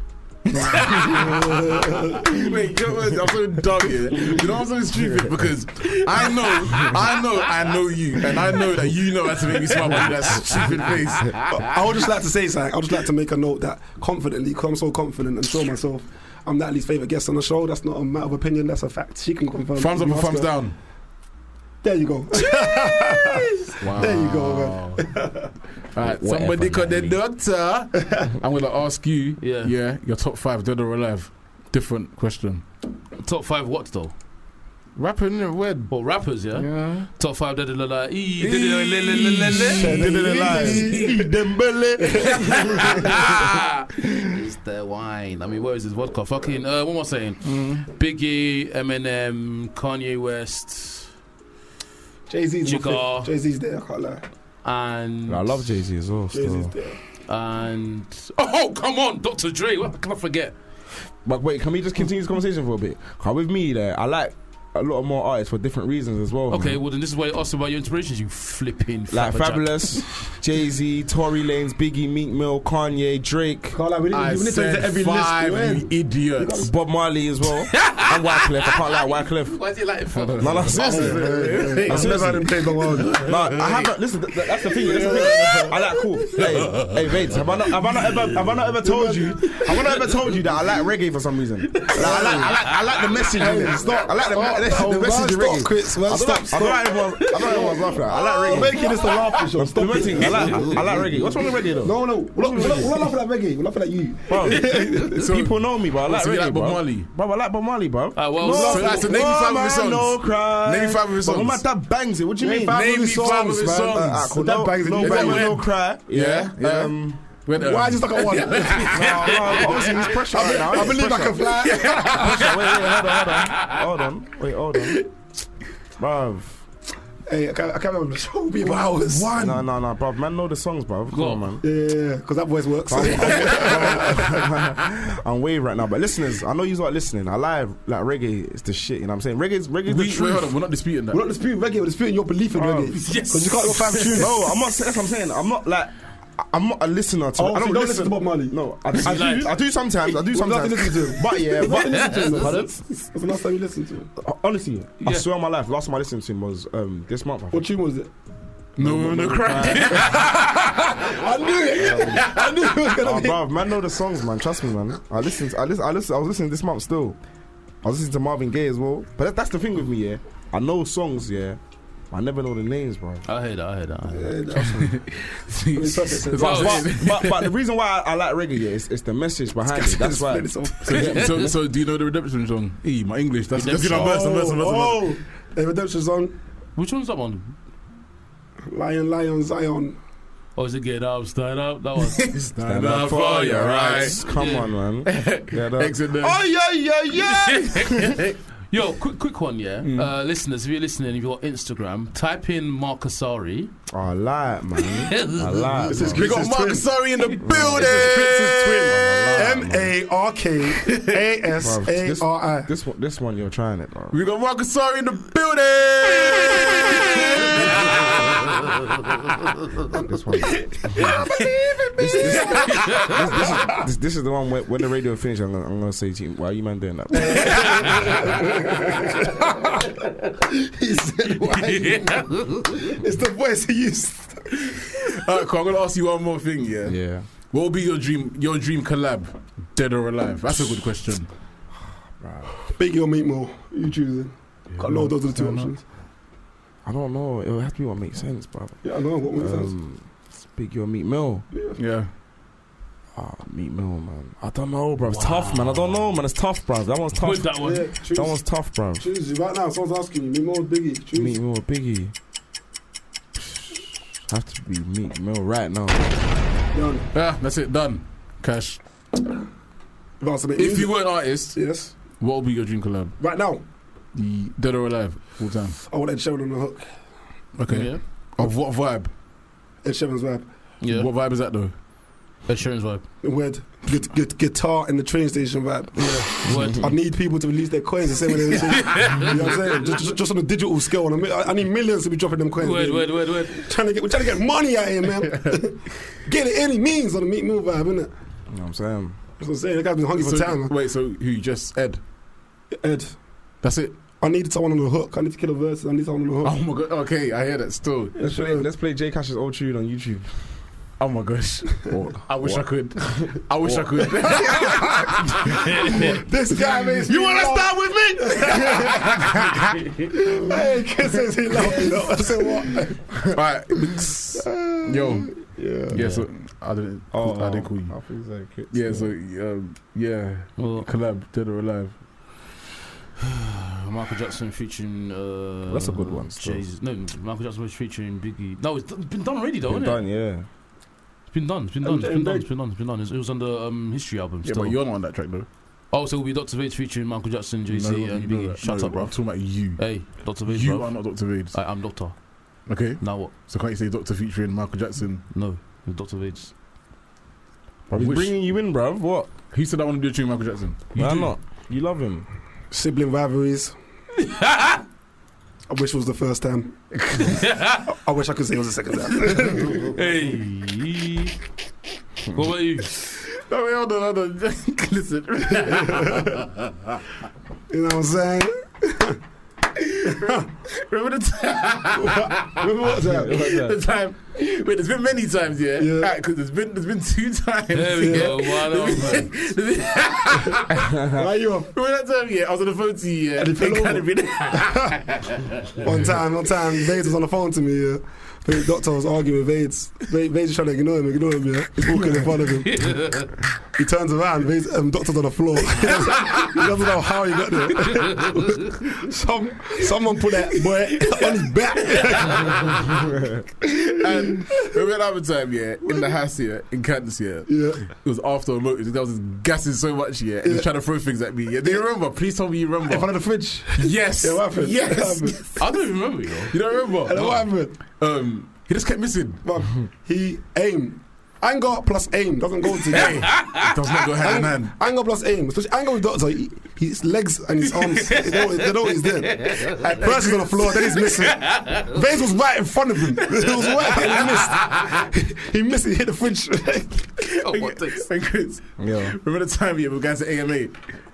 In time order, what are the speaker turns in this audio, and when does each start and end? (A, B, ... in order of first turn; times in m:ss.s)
0:00.5-0:11.6 A
0:00.6-0:01.3 B
0:01.2-0:02.3 C
0:02.2-0:04.4 B
0:04.9-0:05.5 B
0:09.9-0:10.6 D
0:11.6-0:20.5 C
0:19.8-0:20.7 A
0:21.8-0:25.5 C
0:23.8-0:25.0 A
0:25.9-0:32.6 A
0:26.0-0:27.1 B
0:29.4-0:29.7 D
0:33.2-0:34.1 D
0:35.0-0:35.9 A
0:35.9-0:39.8 D
0:36.5-0:37.1 A
0:38.4-0:43.3 B
0:39.0-0:41.0 A
0:39.8-0:41.4 C
0:42.0-0:42.6 C
0:42.4-0:43.6 D
0:44.2-0:51.1 D
0:47.4-0:47.9 A
0:52.3-0:54.2 C
0:52.6-0:53.3 D
0:54.6-0:55.7 D
0:55.3-0:56.7 B
0:56.3-0:57.0 C
0:57.3-1:00.5 D
1:01.2-1:06.8 B
1:06.5-1:10.0 D
1:09.1-1:13.8 B
1:13.7-1:16.7 C
1:14.1-1:16.7 A
1:16.6-1:19.6 B
1:17.7-1:21.2 D
1:20.1-1:22.4 A
1:20.4-1:22.6 B
1:20.8-1:23.2 C
1:23.1-1:38.9 B
1:23.2-1:23.9 A
1:24.6-1:25.8 A
1:25.0-1:25.7 D
1:26.3-1:26.9 D
1:26.4-1:26.8 A
1:28.8-1:29.6 C
1:31.9-1:32.5 C
1:32.2-1:32.7 D
1:33.3-1:45.2 C
1:39.6-1:43.1 B
1:40.2-1:40.8 D
1:44.3-1:57.2 B
1:45.2-1:47.1 A
1:48.1-1:49.1 D
1:48.5-1:51.6 A
1:52.4-1:55.5 C
1:52.7-1:54.3 A
1:55.0-1:56.9 A
1:57.4-1:59.2 A
1:57.6-2:02.3 C
1:58.8-2:05.0 B
1:59.3-2:00.0 D
2:02.0-2:03.8 D
2:06.0-2:06.6 B
2:07.3-2:09.6 C
2:09.3-2:11.6 B
2:11.1-2:11.4 D
2:11.6-2:14.2 C
2:12.9-2:20.6 B
2:19.9-2:21.2 A
2:21.1-2:24.3 C
2:22.5-2:23.0 B
2:23.0-2:24.2 D
2:23.9-2:32.8 B
2:27.4-2:28.6 C
2:28.9-2:29.6 D
2:30.3-2:34.1 C
2:31.6-2:32.7 D
2:34.2-2:37.7 B
2:37.5-2:38.1 C
2:38.8-2:40.1 B
2:38.8-2:40.3 A
2:39.7-2:40.2 D
2:40.2-2:43.4 C
2:41.8-2:42.4 B
2:43.0-2:47.2 B
2:47.8-2:51.6 B
2:52.1-2:53.2 B
2:53.3-2:54.8 D
2:54.1-2:55.0 C
2:54.7-2:57.5 A
2:55.7-2:56.9 C
2:56.4-3:01.7 B
2:59.7-3:01.1 C
3:00.9-3:05.0 A
3:01.1-3:01.4 D
3:03.5-3:04.2 D
3:03.9-3:06.4 C
3:06.8-3:07.6 D
3:08.7-3:10.0 C
3:10.6-3:12.2 D
3:12.0-3:14.2 A
3:12.6-3:18.2 B
3:13.5-3:14.7 D
3:15.0-3:16.4 A
3:17.1-3:18.1 D
3:18.7-3:23.7 D
3:19.8-3:20.1 A
3:23.9-3:26.3 B
3:25.1-3:26.0 D
3:25.8-3:26.9 C
3:26.0-3:29.4 A
3:27.4-3:30.0 B
3:27.7-3:32.7 C
3:31.6-3:34.2 B
3:34.1-3:38.1 A
3:39.9-3:41.3 B
3:41.0-3:42.7 C
3:42.0-3:48.2 B
3:47.2-3:49.9 C
3:47.6-3:48.1 D
3:50.5-3:54.6 C
3:51.5-3:52.6 D
3:55.0-4:01.3 A
3:56.8-3:57.3 B
4:02.2-4:02.5 B
4:02.7-4:05.8 C
4:04.7-4:05.7 A
4:06.8-4:08.8 B
4:08.8-4:09.7 C
4:09.4-4:11.4 B
4:11.5-4:11.8 C
4:11.8-4:12.1 A
4:13.1-4:19.0 B
4:15.1-4:16.1 D
4:17.2-4:17.9 D
4:17.6-4:18.4 C
4:19.0-4:21.4 C
4:21.1-4:22.1 B
4:23.4-4:26.1 B
4:26.7-4:27.0 C
4:27.1-4:28.8 A
4:30.2-4:31.9 C
4:30.6-4:33.1 A
4:33.2-4:33.6 C
4:34.1-4:35.8 A
4:35.8-4:36.9 C
4:37.6-4:39.1 A
4:37.7-4:38.0 D
4:39.8-4:40.4 C
4:40.8-4:41.1 D
4:40.8-4:41.7 A
4:42.5-4:43.0 D
4:43.2-4:58.1 C
4:46.0-4:46.9 D
4:46.5-4:46.9 B
4:48.7-4:49.4 D
4:52.6-4:53.7 D
4:55.2-4:55.6 A
4:58.5-4:59.2 B
4:59.4-5:00.7 C
5:00.2-5:02.0 A
5:02.8-5:03.2 C
5:03.6-5:03.9 A
5:04.2-5:06.6 C
5:06.4-5:08.2 A
5:08.2-5:08.6 C
5:08.2-5:10.6 B
5:11.0-5:16.2 A
5:12.3-5:14.7 B
5:15.9-5:19.1 C
5:17.0-5:19.0 B
5:19.0-5:19.7 A
5:20.2-5:23.1 C
5:23.3-5:25.3 A
5:24.4-5:24.8 C
5:25.5-5:26.0 B
5:25.9-5:27.9 A
5:25.9-5:26.3 D
5:27.1-5:29.1 B
5:28.7-5:32.0 A
5:30.6-5:30.9 D
5:33.8-5:40.0 D
5:35.7-5:36.6 B
5:39.7-5:40.5 B
5:41.3-5:44.8 D
5:41.8-5:42.5 C
5:44.4-5:45.5 A
5:45.9-5:52.2 D
5:47.7-5:49.9 A
5:50.4-5:51.6 A
5:52.7-5:55.3 A
5:53.0-5:53.3 D
5:55.3-5:56.5 D
5:57.9-5:59.3 B
5:57.9-5:58.3 A
5:59.5-6:01.2 A
6:00.9-6:02.3 B
6:01.0-6:01.3 D
6:02.7-6:03.7 C
6:04.2-6:04.8 D
6:05.7-6:06.7 C
6:07.0-6:07.4 A
6:07.4-6:07.8 D
6:07.9-6:09.9 C
6:09.9-6:11.3 D
6:12.3-6:12.9 D
6:13.1-6:17.0 A
6:15.6-6:16.3 C
6:17.7-6:19.2 C
6:19.8-6:30.9 A
6:20.1-6:20.5 C
6:22.0-6:23.4 C
6:23.0-6:23.8 B
6:25.8-6:26.1 C
6:27.7-6:29.3 D
6:28.0-6:28.3 C
6:30.9-6:31.2 B
6:31.2-6:31.7 C
6:31.7-6:35.8 A
6:33.4-6:35.0 C
6:35.8-6:42.9 C
6:42.6-6:43.3 D
6:43.8-6:52.7 C
6:47.8-6:48.7 D
6:52.9-6:53.4 B
6:53.6-7:03.1 A
6:57.5-6:57.9 C
7:00.4-7:00.7 C
7:02.8-7:05.5 C
7:03.8-7:05.6 A
7:05.6-7:06.5 D
7:06.5-7:09.4 A
7:07.0-7:07.8 C
7:09.4-7:13.4 C
7:12.9-7:14.7 A
7:14.2-7:27.1 C
7:18.0-7:19.6 D
7:19.8-7:20.8 A
7:21.4-7:21.9 D
7:27.4-7:28.0 D
7:27.4-7:30.8 A
7:28.8-7:29.2 B